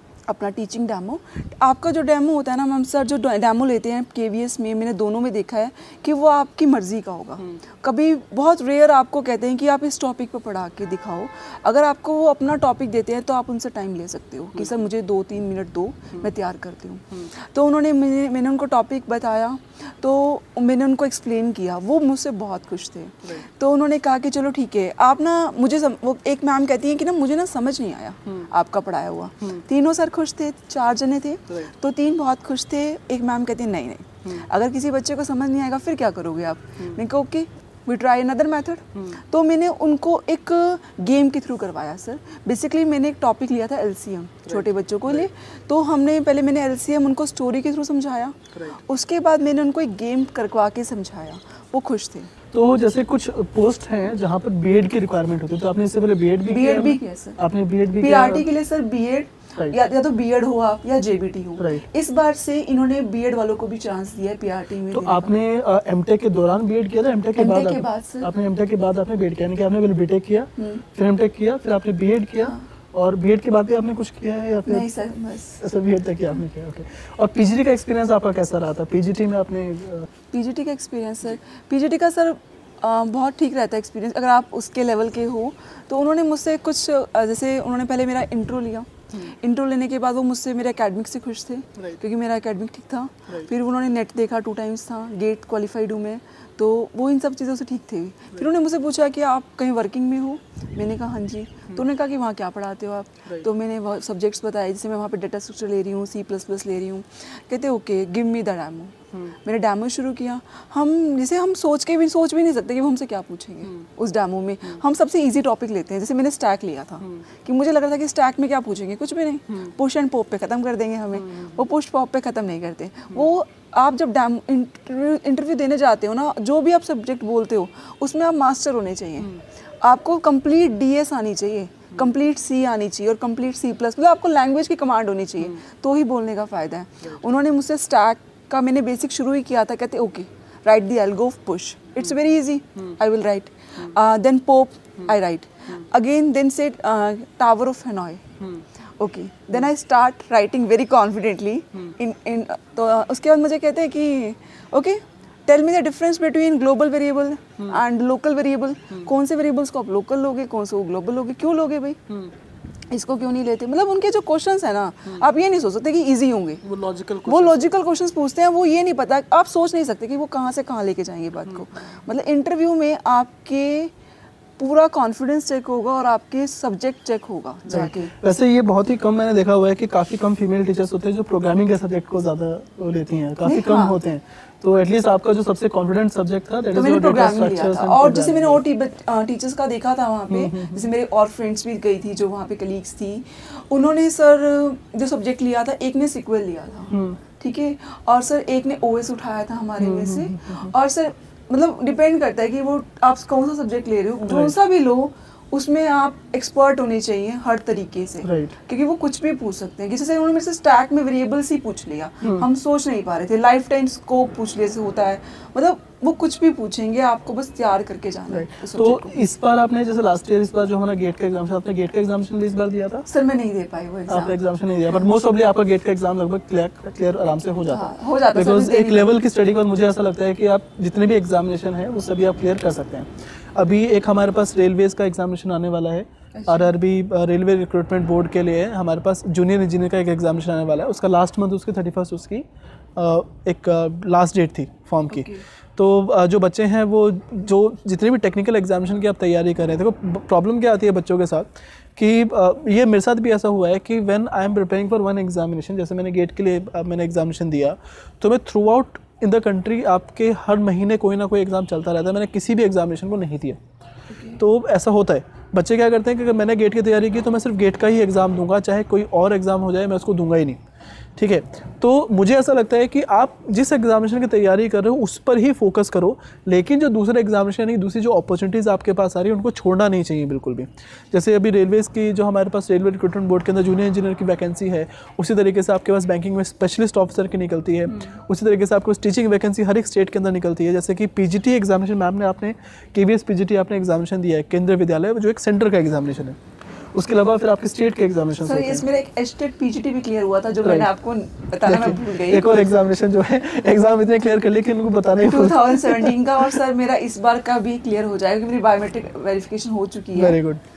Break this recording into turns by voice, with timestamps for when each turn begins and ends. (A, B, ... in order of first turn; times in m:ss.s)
0:00.3-0:52.3 A
0:14.6-0:14.9 B
0:28.3-0:28.5 B
0:39.0-0:39.2 B
0:44.5-0:45.3 B
0:52.5-0:58.5 B
0:56.5-0:57.4 A
0:58.0-1:05.3 A
1:01.6-1:01.8 B
1:04.9-1:14.9 B
1:07.4-1:08.3 A
1:10.6-1:10.8 A
1:14.7-1:15.6 A
1:15.6-1:20.1 B
1:20.3-2:28.2 A
1:57.0-1:57.3 B
2:01.2-2:01.6 B
2:28.4-2:28.6 B
2:29.0-2:42.0 A
2:42.9-2:46.6 A
2:46.6-2:47.8 B
2:47.2-2:53.9 A
2:54.6-2:58.1 A
2:57.7-3:08.6 B
3:03.4-3:04.0 A
3:06.7-3:39.2 A
3:10.3-3:10.9 B
3:16.9-3:17.2 B
3:19.8-3:20.7 B
3:24.3-3:24.6 B
3:28.2-3:28.6 B
3:38.3-3:43.1 B
3:43.1-3:44.4 A
3:44.1-4:02.4 B
3:47.7-3:49.1 A
3:56.4-3:56.7 A
4:03.0-4:23.6 B
4:05.1-4:05.4 A
4:24.1-4:24.4 A
4:24.4-4:30.6 B
4:31.2-4:56.4 B
4:56.9-4:58.8 B
4:58.4-5:02.5 A
5:00.6-5:00.9 B
5:01.6-5:06.6 B
5:05.2-5:10.4 A
5:10.2-5:10.6 B